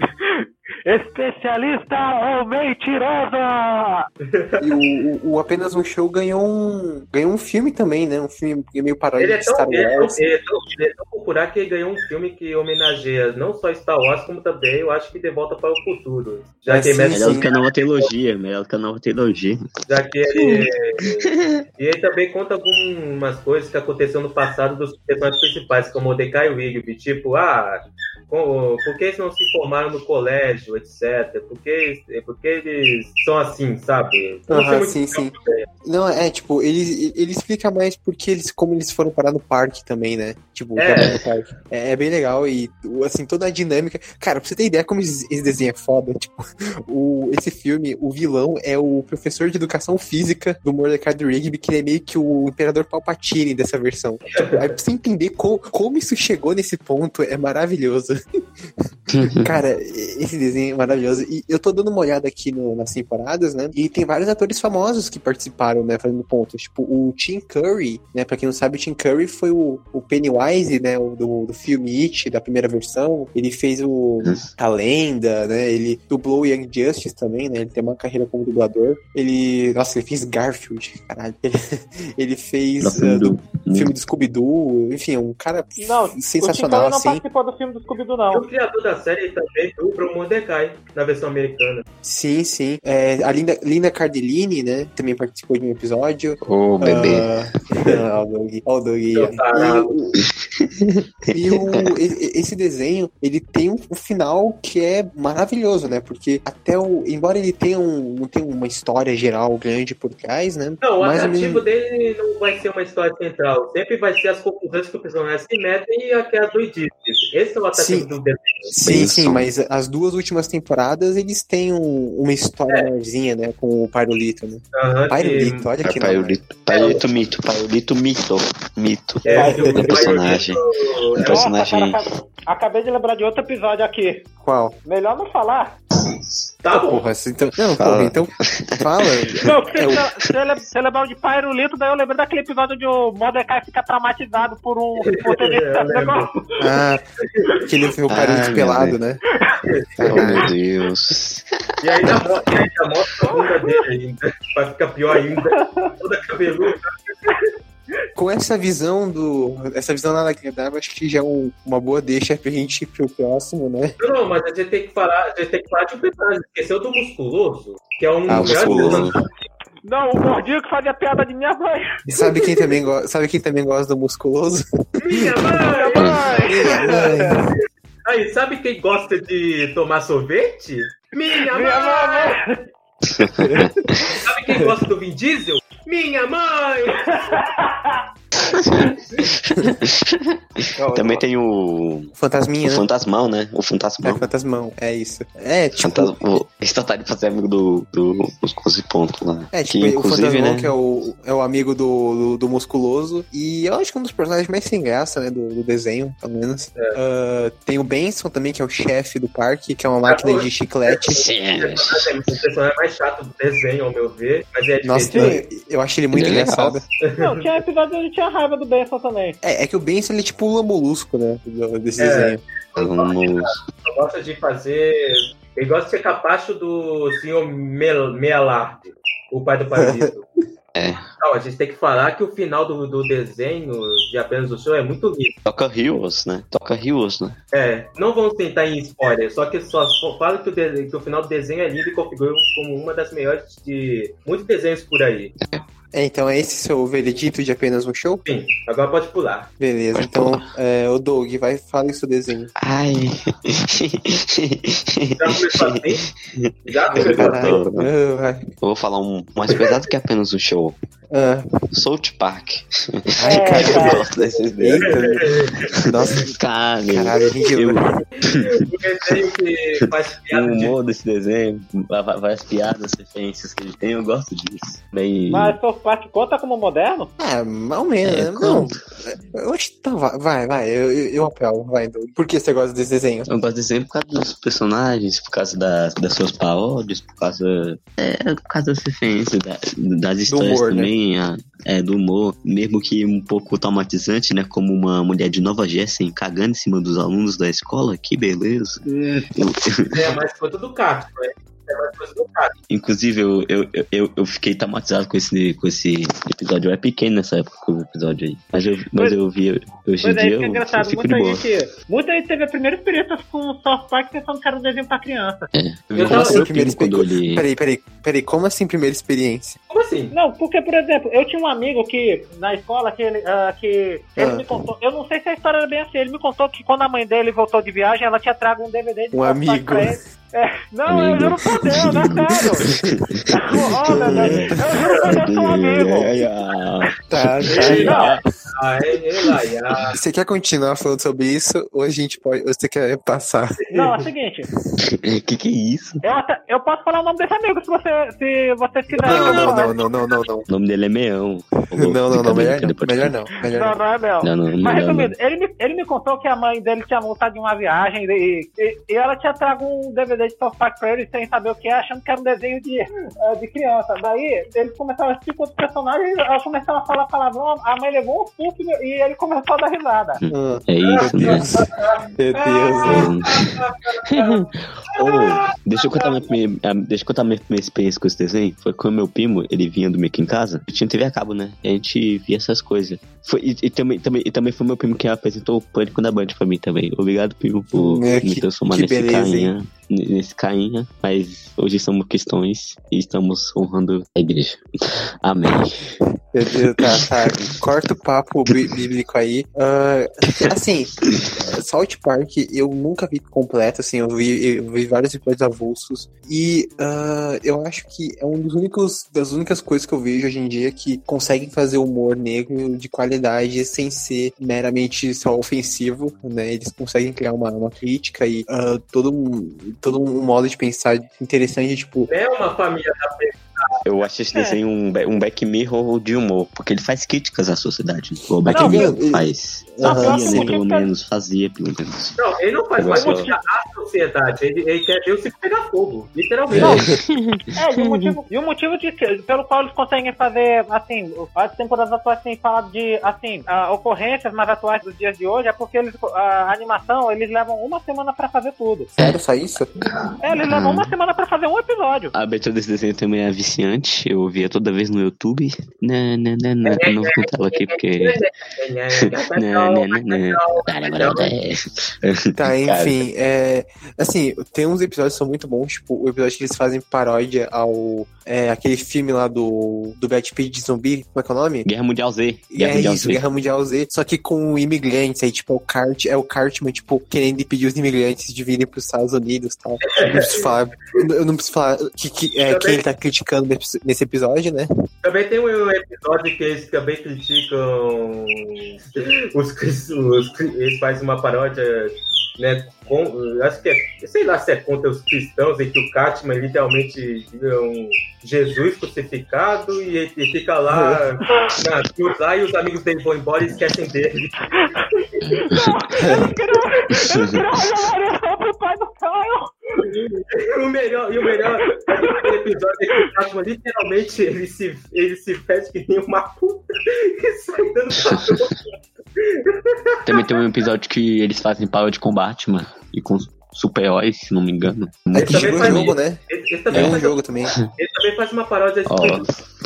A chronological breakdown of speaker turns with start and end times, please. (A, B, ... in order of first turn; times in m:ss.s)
0:00.2-0:04.1 A
0:04.3-0:04.8 B
0:04.6-0:10.2 C
0:09.2-0:18.1 B
0:16.7-0:17.5 C
0:17.1-0:19.6 D
0:19.9-0:35.6 B
0:20.3-0:21.5 D
0:34.5-0:58.7 C
0:40.8-0:41.2 B
0:41.0-0:41.2 D
0:54.4-0:54.7 B
0:59.1-0:59.5 D
0:59.3-1:27.2 C
1:22.8-1:23.9 D
1:25.8-1:28.4 A
1:28.3-1:31.8 B
1:32.0-1:40.2 C
1:36.4-1:37.3 D
1:39.1-1:39.9 B
1:40.2-1:41.9 D
1:41.3-1:51.6 C
1:50.8-1:58.7 B
1:57.7-1:58.1 C
1:58.7-2:06.4 C
1:58.8-1:59.5 D
2:04.8-2:05.7 B
2:05.8-2:12.0 D
2:06.7-2:07.0 B
2:09.2-2:11.4 B
2:09.4-2:10.2 C
2:11.2-2:14.2 A
2:14.4-2:14.8 C
2:14.8-2:15.7 A
2:16.6-2:17.0 B
2:16.7-2:20.0 C
2:17.8-2:20.0 D
2:19.4-2:26.4 A
2:25.1-2:26.3 B
2:26.6-2:27.0 C
2:27.4-2:27.6 B
2:27.6-2:29.2 C
2:28.1-2:29.0 D
2:29.6-2:30.2 B
2:30.0-2:30.5 C
2:30.1-2:32.3 D
2:31.8-2:37.1 B
2:33.4-2:33.8 A
2:35.5-2:35.9 A
2:38.2-2:44.0 C
2:44.0-2:49.3 B
2:48.3-2:49.2 D
2:48.3-2:49.1 C
2:49.8-2:51.9 A
2:52.1-2:55.6 C
2:52.3-2:52.8 B
2:55.0-2:57.5 B
2:55.7-2:57.4 A
2:56.0-2:56.3 D
2:56.5-2:57.5 C
2:58.1-3:02.4 B
3:01.5-3:02.7 A
3:03.2-3:04.2 D
3:03.4-3:04.7 C
3:04.2-3:07.3 B
3:07.2-3:08.0 A
3:08.4-3:14.2 D
3:10.8-3:11.2 A
3:12.2-3:12.9 C
3:14.0-3:16.4 C
3:15.8-3:20.7 D
3:19.5-3:31.2 C
3:30.1-3:35.3 B
3:31.1-3:32.1 D
3:34.8-3:36.8 C
3:36.1-3:36.8 D
3:37.0-3:37.5 B
3:37.2-3:39.4 A
3:39.4-3:42.4 C
3:42.0-3:50.3 B
3:42.8-3:43.6 D
3:49.8-3:50.1 C
3:50.8-3:51.0 D
3:51.2-3:55.4 B
3:55.5-3:57.4 D
3:57.5-4:05.3 B
4:05.9-4:08.2 C
4:08.3-4:09.5 B
4:09.6-4:12.5 C
4:09.9-4:10.5 D
4:12.6-4:17.9 D
4:15.2-4:16.0 B
4:16.7-4:17.6 B
4:16.9-4:18.5 C
4:18.6-4:20.8 D
4:21.1-4:21.5 C
4:21.7-4:29.1 D
4:23.2-4:26.3 C
4:23.2-4:24.0 A
4:24.9-4:25.7 B
4:26.9-4:28.0 C
4:28.2-4:30.8 B
4:30.3-4:35.6 D
4:35.3-4:37.1 A
4:37.2-4:43.3 C
4:38.0-4:38.8 D
4:43.3-5:00.1 D
4:50.3-4:50.9 C
4:59.9-5:02.6 B
5:02.7-5:11.5 D
5:10.0-5:15.5 A
5:15.5-5:17.4 D
5:15.9-5:16.5 B
5:16.1-5:19.6 C
5:19.7-5:20.1 B
5:20.1-5:32.6 A
5:24.2-5:24.6 C
5:29.1-5:30.0 C
5:30.9-5:38.2 D
5:31.8-5:32.0 C
5:32.6-5:33.0 C
5:33.3-5:36.3 A
5:33.8-5:34.6 C
5:37.1-5:38.1 C
5:37.6-5:40.0 B
5:37.8-5:38.1 A
5:39.9-5:43.5 C
5:43.7-5:44.0 B
5:43.7-5:44.5 A
5:44.8-5:46.0 D
5:46.0-5:50.1 A
5:48.9-5:50.5 C
5:49.0-5:49.5 D
5:50.5-5:53.1 D
5:51.8-5:53.8 C
5:53.5-6:10.2 A
5:54.2-5:55.1 D
6:10.2-6:11.5 D
6:10.3-6:13.1 C
6:10.8-6:14.4 B
6:12.9-6:36.0 D
6:27.7-6:29.5 C
6:36.3-7:02.1 C
6:36.6-6:37.6 D
6:41.1-6:41.5 D
7:02.1-7:03.8 B
7:03.8-7:12.2 D
7:08.4-7:10.5 C
7:08.5-7:09.0 A
7:09.8-7:10.9 A
7:12.2-7:16.9 B
7:12.8-7:13.3 D
7:13.0-7:13.4 A
7:16.5-7:17.4 D
7:16.6-7:16.9 C
7:17.6-7:28.9 A
7:29.0-7:29.7 C
7:29.9-7:30.9 D
7:30.2-7:32.1 A
7:32.1-7:38.2 D
7:36.7-7:41.3 B
7:39.0-7:43.0 D
7:42.4-7:51.7 C
7:51.6-7:53.2 D
7:52.5-8:04.7 C
7:59.9-8:01.0 B
8:02.5-8:02.8 B
8:05.0-8:24.4 B
8:20.7-8:21.0 C
8:24.6-8:29.9 A
8:25.2-8:25.6 D
8:29.8-8:40.3 B
8:31.6-8:32.3 A
8:38.1-8:38.4 D
8:40.1-8:45.9 D
8:45.1-8:47.2 B
8:45.2-8:46.2 C
8:46.7-8:47.6 C
8:47.8-8:49.2 B
8:48.9-8:49.3 D